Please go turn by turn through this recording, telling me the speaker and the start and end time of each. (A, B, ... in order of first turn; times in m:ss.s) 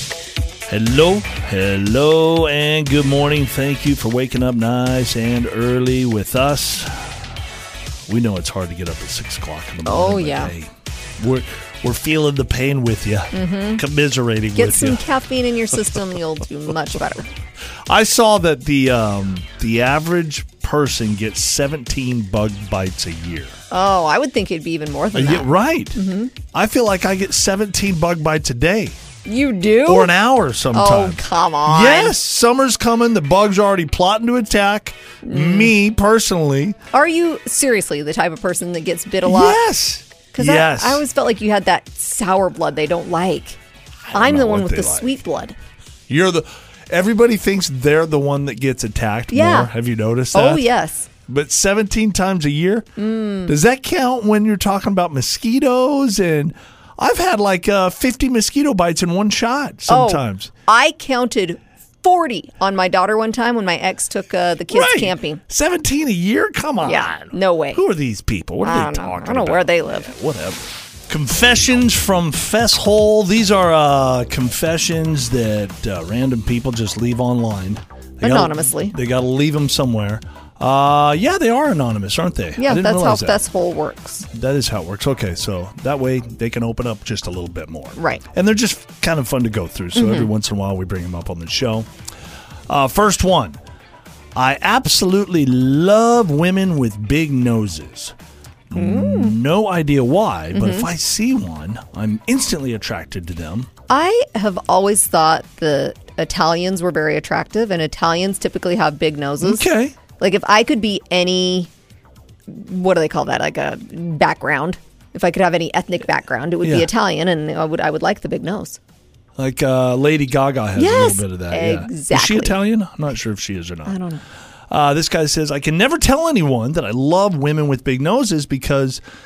0:00.7-0:07.1 A
0:08.1-0:15.0 A
0:09.8-0:10.5 B
0:13.3-0:13.8 B
0:14.5-0:17.3 B
0:17.9-0:23.5 A
0:23.7-0:26.3 B
0:25.1-0:26.0 A
0:26.5-0:29.0 A
0:29.2-0:30.1 B
0:29.9-0:36.8 A
0:30.7-0:32.1 B
0:35.2-0:35.7 B
0:36.9-0:39.6 B
0:39.2-0:41.0 A
0:40.3-0:43.6 B
0:44.1-0:45.1 A
0:44.1-0:45.6 B
0:46.1-0:50.7 A
0:49.3-0:49.7 B
0:50.3-0:51.1 B
0:51.3-0:52.9 A
0:53.0-0:53.5 B
0:53.5-1:00.5 A
0:59.9-1:05.4 B
1:04.7-1:23.4 A
1:06.8-1:07.8 B
1:08.6-1:10.1 B
1:18.2-1:19.0 B
1:22.6-1:24.3 B
1:24.3-1:31.9 A
1:28.0-1:28.2 B
1:30.0-1:30.3 B
1:32.7-1:33.6 A
1:34.3-1:38.1 A
1:38.7-1:43.7 A
1:38.8-1:39.4 B
1:40.5-1:40.9 B
1:43.9-1:49.6 B
1:49.4-1:50.0 A
1:50.2-1:51.7 B
1:52.5-1:58.8 B
1:56.6-1:56.9 A
1:59.4-2:04.0 A
2:00.8-2:02.6 B
2:03.9-2:04.2 B
2:04.7-2:09.0 A